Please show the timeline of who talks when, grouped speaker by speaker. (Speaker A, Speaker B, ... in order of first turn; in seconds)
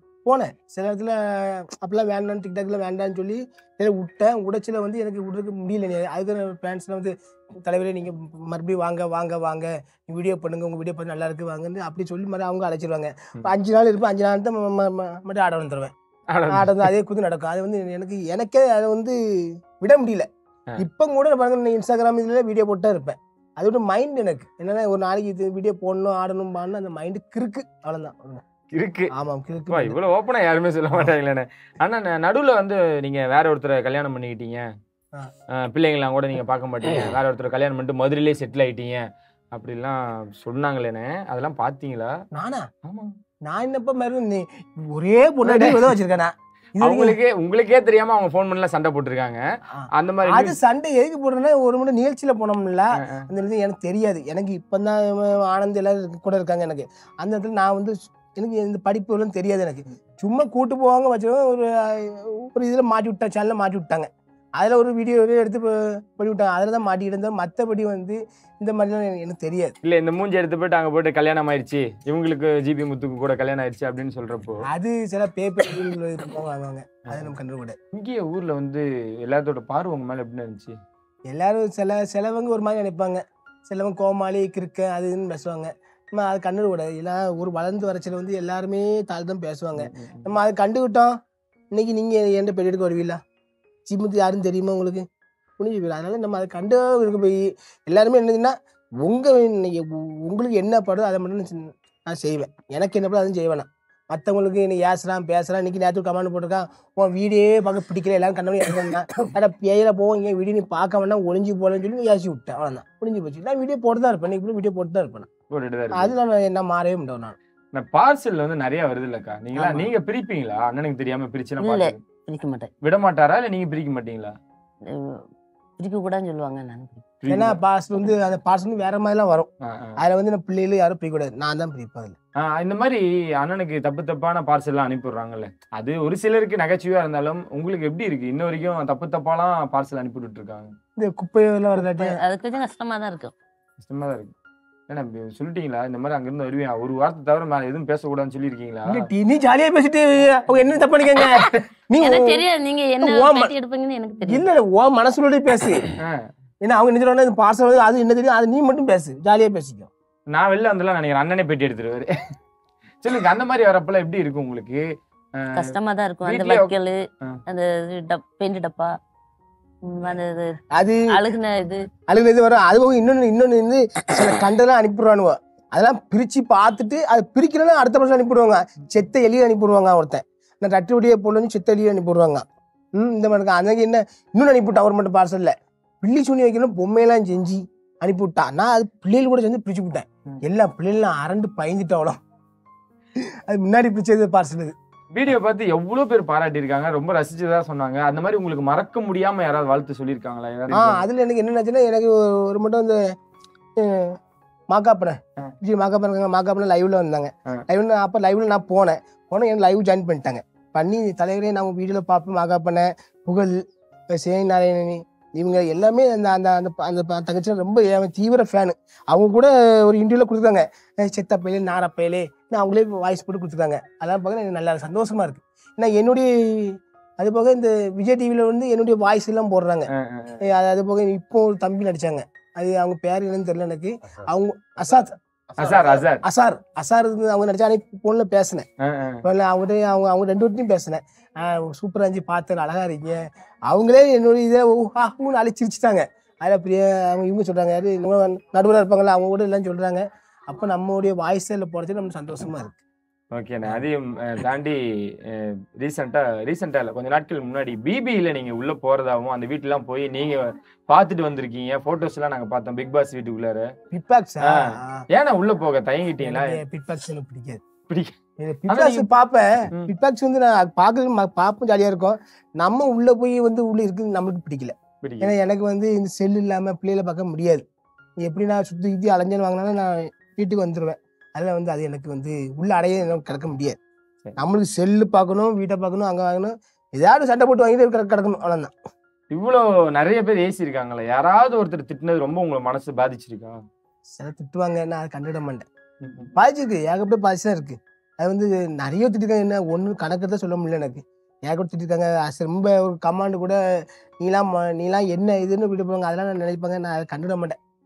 Speaker A: 0.2-15.9, 16.5-19.2, 19.8-20.3, 20.8-28.4, 29.1-30.0, 42.3-42.7, 43.4-47.2, 49.8-69.7, 74.6-77.8, 81.3-91.1, 91.7-93.2, 93.8-95.0, 95.6-115.3, 115.9-117.3, 119.5-119.9, 127.3-132.2, 141.0-142.2, 148.8-152.4, 153.0-153.5, 154.2-155.9, 156.6-159.9, 170.7-171.0, 172.1-182.4, 182.9-192.2, 193.5-194.7, 200.7-203.0, 203.8-204.2, 204.7-229.9, 230.4-238.7, 239.2-252.8, 263.9-265.0, 266.2-267.6, 268.4-277.6, 278.2-283.8, 284.4-288.7, 294.2-295.6, 296.4-307.6
Speaker B: 16.3-16.9, 28.8-29.1, 29.7-34.7, 35.5-42.1, 42.8-43.1, 45.4-45.9, 46.8-49.4, 49.9-50.6, 69.8-74.6, 77.1-77.3, 77.9-80.8, 89.8-90.3, 115.5-116.1, 117.7-122.0, 122.8-124.3, 127.2-127.6, 129.6-130.0, 132.4-140.7, 143.8-144.3, 144.9-149.1, 160.3-162.1, 163.0-164.8, 166.2-167.4, 195.1-201.0, 229.9-230.4, 235.6-236.2, 238.8-239.2, 253.3-254.8, 255.3-263.7, 264.6-266.6, 267.9-268.1, 268.7-269.1, 275.0-275.4, 289.3-293.6, 296.0-296.3
Speaker C: 121.6-122.7, 124.9-125.2, 125.8-127.0, 141.8-143.3, 152.0-154.5, 165.5-168.9, 169.8-170.5, 171.1-171.8